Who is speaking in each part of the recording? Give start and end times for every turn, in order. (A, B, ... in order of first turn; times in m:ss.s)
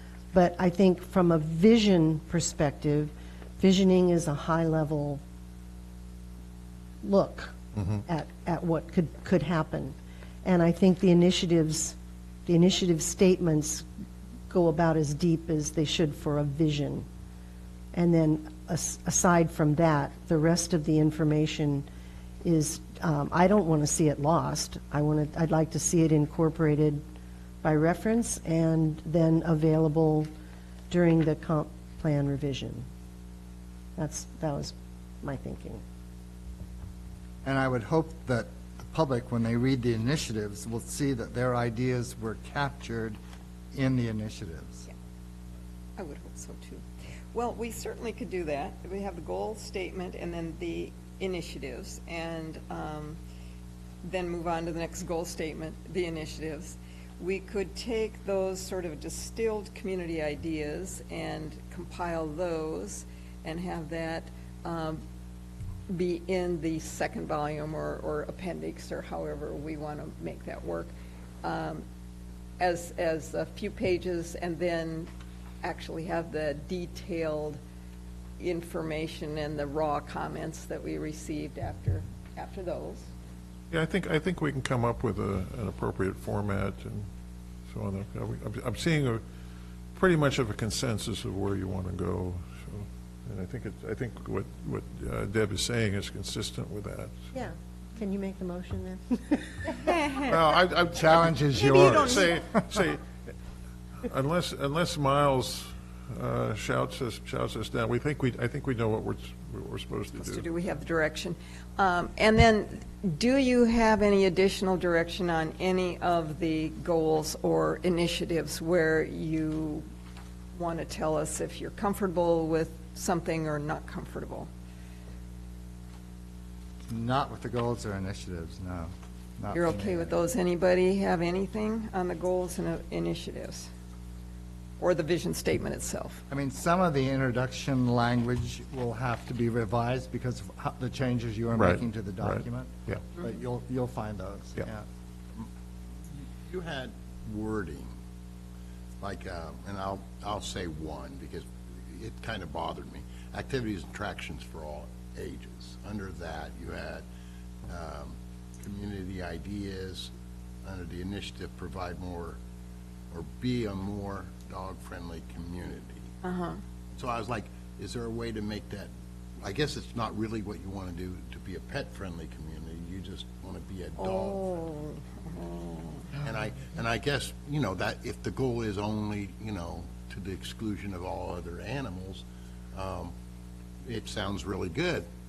0:00.3-0:05.2 A
0:07.0-0:13.8 A
0:14.5-0:17.1 A
0:17.9-0:21.8 A
0:22.4-0:27.0 A
0:27.6-0:30.3 A
0:30.9-0:32.8 A
0:34.0-0:35.8 A
0:37.4-0:43.2 B
0:43.7-0:44.8 B
0:46.0-0:53.2 C
0:54.0-1:05.0 C
1:05.9-1:11.8 C
1:12.6-1:15.1 C
1:15.6-1:17.6 C
1:18.4-1:23.1 C
1:23.7-1:27.1 D
1:27.7-1:29.2 D
1:29.9-1:37.1 D
1:37.3-1:39.7 A
1:39.7-1:40.4 C
1:40.3-1:43.3 D
1:40.9-1:42.6 B
1:41.6-1:42.3 C
1:44.0-1:50.4 D
1:50.2-1:59.8 C
2:00.5-2:04.5 C
2:06.9-2:10.2 B
2:09.5-2:13.7 C
2:14.8-2:16.2 C
2:16.3-2:24.8 B
2:21.6-2:23.0 D
2:26.4-2:27.9 E
2:29.0-2:37.0 E
2:37.7-2:40.1 E
2:40.6-2:42.4 E
2:43.1-2:46.1 E
2:46.2-2:46.6 C
2:47.0-2:54.4 E
2:54.0-2:56.1 C
2:56.2-3:03.1 E
3:03.8-3:05.0 E